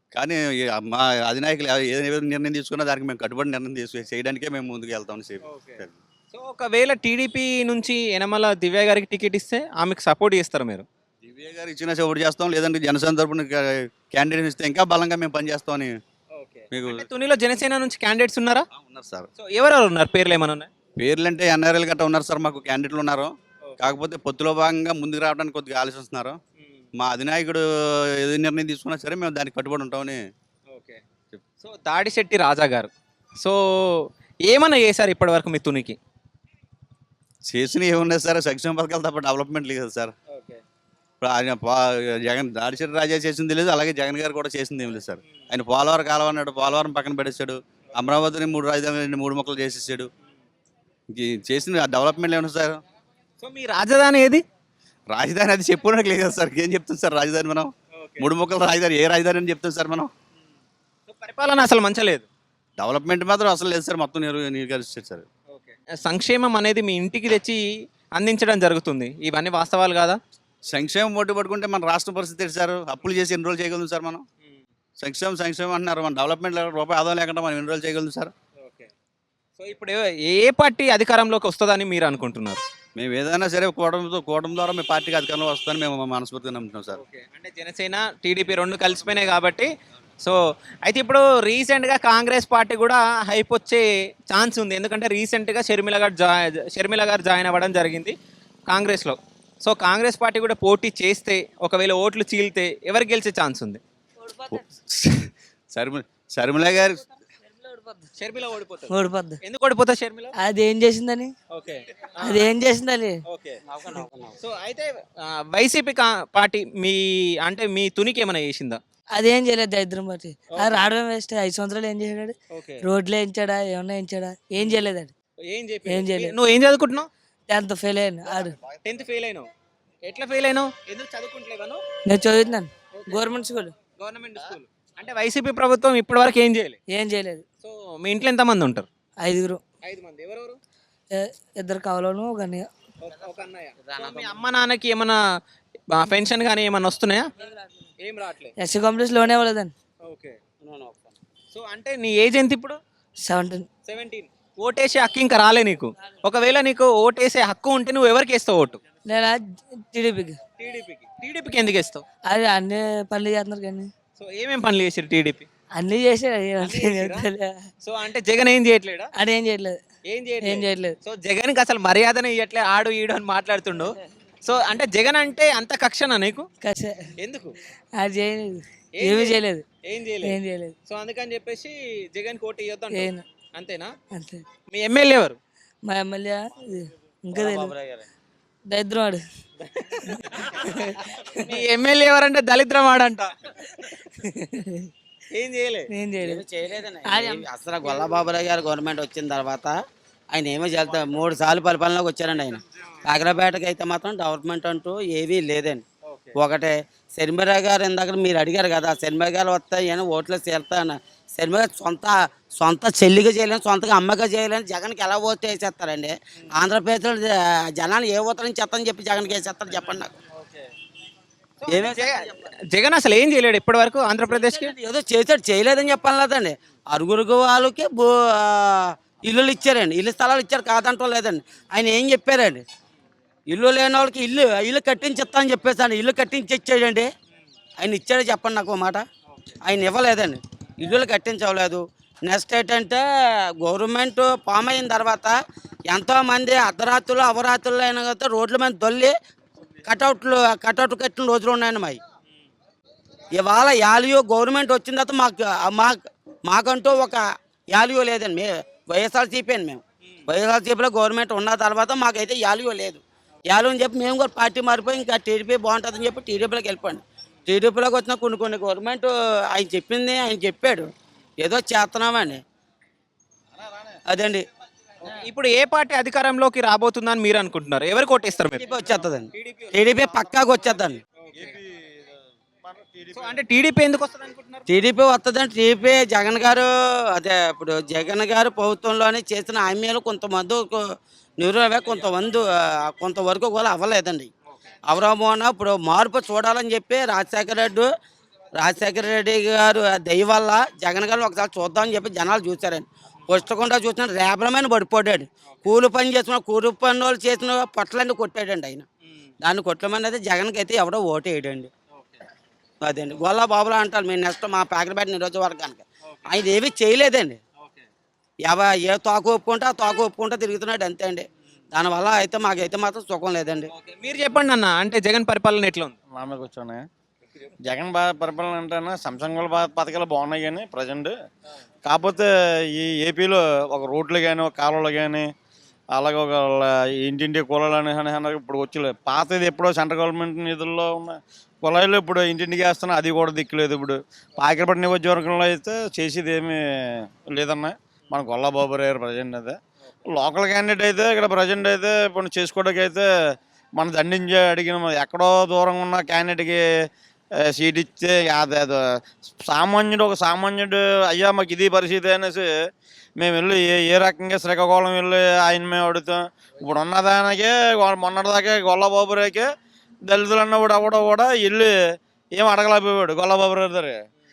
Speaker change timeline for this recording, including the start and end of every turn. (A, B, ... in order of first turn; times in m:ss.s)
0:00.1-0:06.0 A
0:05.4-0:10.8 B
0:11.2-0:16.0 A
0:16.3-0:18.6 B
0:16.7-0:17.0 A
0:18.8-0:19.3 A
0:19.4-0:20.7 B
0:21.0-0:26.4 A
0:27.0-0:30.2 A
0:30.7-0:31.0 B
0:31.6-0:36.0 B
0:37.5-0:40.1 A
0:41.2-0:50.1 A
0:51.1-0:52.8 A
0:53.4-0:54.4 B
0:55.1-1:00.1 A
0:57.9-0:58.2 B
1:01.1-1:02.2 B
1:02.8-1:05.2 A
1:05.6-1:07.6 B
1:08.1-1:10.2 B
1:10.7-1:14.2 A
1:15.0-1:18.3 A
1:18.6-1:18.9 B
1:19.6-1:22.6 B
1:23.0-1:27.0 A
1:26.9-1:29.7 B
1:30.2-1:38.1 B
1:38.7-1:43.8 B
1:44.2-1:44.5 C
1:44.5-1:47.0 A
1:47.6-1:48.1 C
1:48.2-1:50.3 B
1:48.9-1:49.4 C
1:50.4-1:51.3 C
1:51.5-1:52.5 B
1:52.2-1:53.2 C
1:53.3-1:53.6 B
1:54.4-1:58.8 B
1:59.1-2:05.1 C
2:00.5-2:00.9 B
2:02.5-2:02.8 B
2:05.4-2:07.1 B
2:05.8-2:06.4 C
2:07.5-2:08.6 C
2:08.8-2:09.5 B
2:10.0-2:11.8 B
2:12.0-2:13.7 C
2:14.0-2:16.8 B
2:16.9-2:17.4 C
2:17.6-2:18.8 B
2:19.2-2:19.6 C
2:19.8-2:20.6 B
2:21.1-2:22.7 C
2:23.0-2:25.2 B
2:23.8-2:24.2 D
2:25.9-2:27.3 B
2:28.0-2:28.5 B
2:28.6-2:29.7 C
2:30.0-2:30.4 B
2:30.6-2:31.1 D
2:31.5-2:32.8 B
2:33.2-2:33.7 C
2:33.8-2:38.8 B
2:39.0-2:40.4 C
2:40.6-2:42.0 B
2:42.2-2:43.9 C
2:44.2-2:45.5 B
2:45.8-2:47.5 C
2:46.6-2:47.3 B
2:47.8-2:49.1 B
2:49.2-2:49.8 C
2:50.1-2:56.5 B
2:50.4-2:50.9 C
2:56.6-2:57.1 C
2:57.2-2:57.5 B
2:58.0-2:59.6 C
2:58.9-3:00.4 B
3:00.2-3:00.7 C
3:00.9-3:03.9 B
3:02.9-3:03.2 C
3:04.1-3:04.4 C
3:04.7-3:05.4 B
3:05.8-3:07.7 C
3:07.3-3:08.1 D
3:08.7-3:09.2 C
3:10.1-3:10.9 C
3:11.4-3:13.6 B
3:14.6-3:14.9 C
3:15.3-3:15.9 B
3:15.9-3:16.4 C
3:16.2-3:19.7 D
3:17.0-3:17.5 C
3:20.3-3:25.8 D
3:26.4-3:40.1 D
3:41.6-3:44.8 B
3:41.7-3:42.2 D
3:44.5-3:52.6 D
3:53.5-3:57.1 D
3:57.8-3:59.0 D
3:59.6-4:03.0 D
4:03.6-4:05.3 D
4:05.9-4:09.1 D
4:09.8-4:12.0 D
4:13.3-4:32.4 D
4:34.1-4:34.4 D
4:35.0-4:38.6 B
4:38.6-4:41.0 D
4:39.3-4:40.1 B
4:41.2-4:41.5 B
4:41.4-4:41.8 E
4:42.6-4:43.3 E
4:43.1-4:44.6 B
4:44.7-4:54.3 D
4:54.9-4:57.9 D
4:58.6-5:08.8 D
5:09.4-5:11.7 D
5:12.8-5:17.4 D
5:18.4-5:23.7 D
5:23.7-5:26.0 B
5:26.2-5:26.8 E
5:27.6-5:31.1 E
5:31.8-5:35.3 E
5:35.9-5:49.6 E
5:50.1-5:56.6 E
5:57.5-6:02.5 E
6:03.2-6:09.5 E
6:10.0-6:11.7 E
6:12.4-6:14.0 E